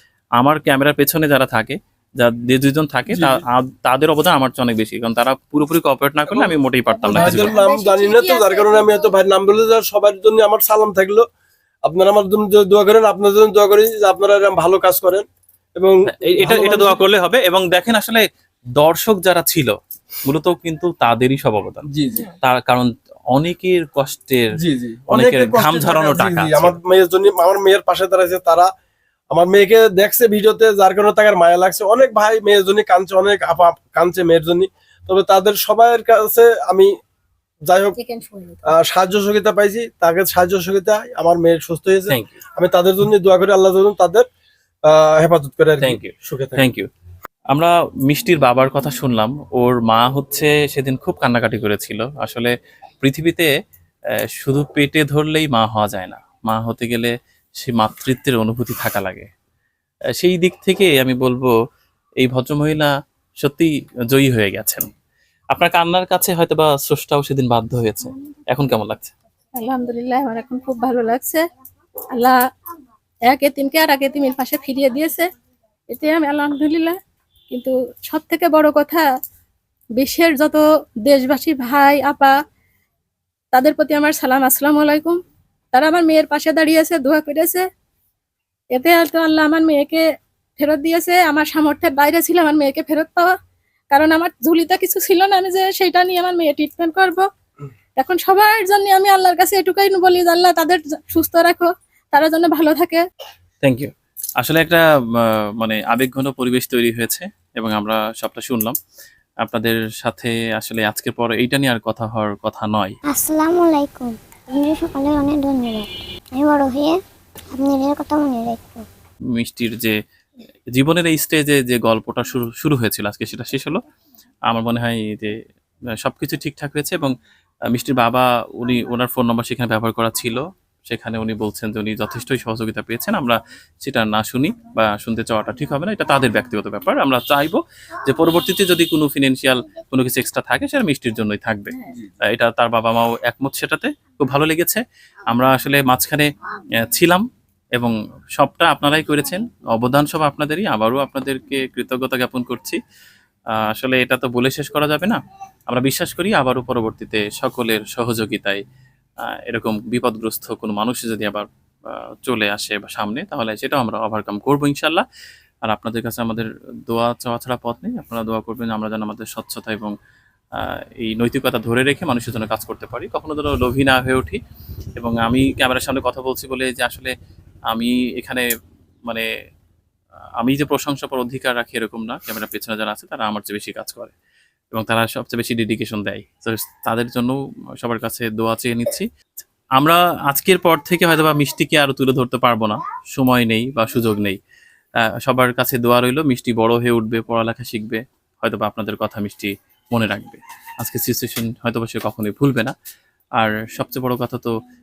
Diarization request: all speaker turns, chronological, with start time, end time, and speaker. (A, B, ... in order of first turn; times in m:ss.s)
0:00.4-0:07.6 A
0:03.1-0:03.4 B
0:07.0-0:09.1 C
0:07.1-0:11.2 B
0:11.8-0:15.2 B
0:15.8-0:17.0 B
0:16.1-0:18.2 A
0:18.8-0:19.7 A
0:20.2-0:21.9 A
0:21.9-0:22.3 B
0:22.4-0:24.5 A
0:24.6-0:28.7 B
0:25.1-0:26.8 A
0:29.3-0:36.9 B
0:37.6-0:38.0 B
0:38.0-0:38.7 C
0:38.7-0:44.2 B
0:42.1-0:42.4 A
0:44.9-0:46.7 B
0:45.8-0:46.9 A
0:47.5-0:53.5 A
0:54.4-0:59.3 A
1:00.2-1:01.5 A
1:02.2-1:02.9 A
1:03.4-1:04.9 A
1:05.5-1:09.1 A
1:09.6-1:11.4 C
1:13.3-1:15.2 C
1:15.9-1:17.0 C
1:17.5-1:19.0 C
1:20.0-1:22.3 C
1:23.5-1:25.2 C
1:25.7-1:27.6 C
1:28.7-1:30.0 C
1:30.6-1:33.3 C
1:33.9-1:37.2 C
1:38.0-1:43.0 C
1:43.6-1:48.8 A
1:49.4-1:52.9 A
1:53.1-1:57.0 D
1:57.5-1:58.8 D
1:59.3-2:00.0 A
2:00.7-2:03.8 A
2:04.5-2:05.3 A
2:06.0-2:07.1 A
2:07.7-2:26.3 A
2:26.8-2:27.2 A
2:27.8-2:32.8 A
2:33.6-2:38.6 A
2:39.4-2:45.0 A
2:45.6-2:49.9 A
2:50.6-2:54.4 A
2:55.0-2:57.1 A
2:57.7-2:58.4 A
3:00.4-3:04.1 A
3:04.7-3:09.1 A
3:09.8-3:14.4 A
3:15.0-3:22.7 A
3:23.4-3:24.5 A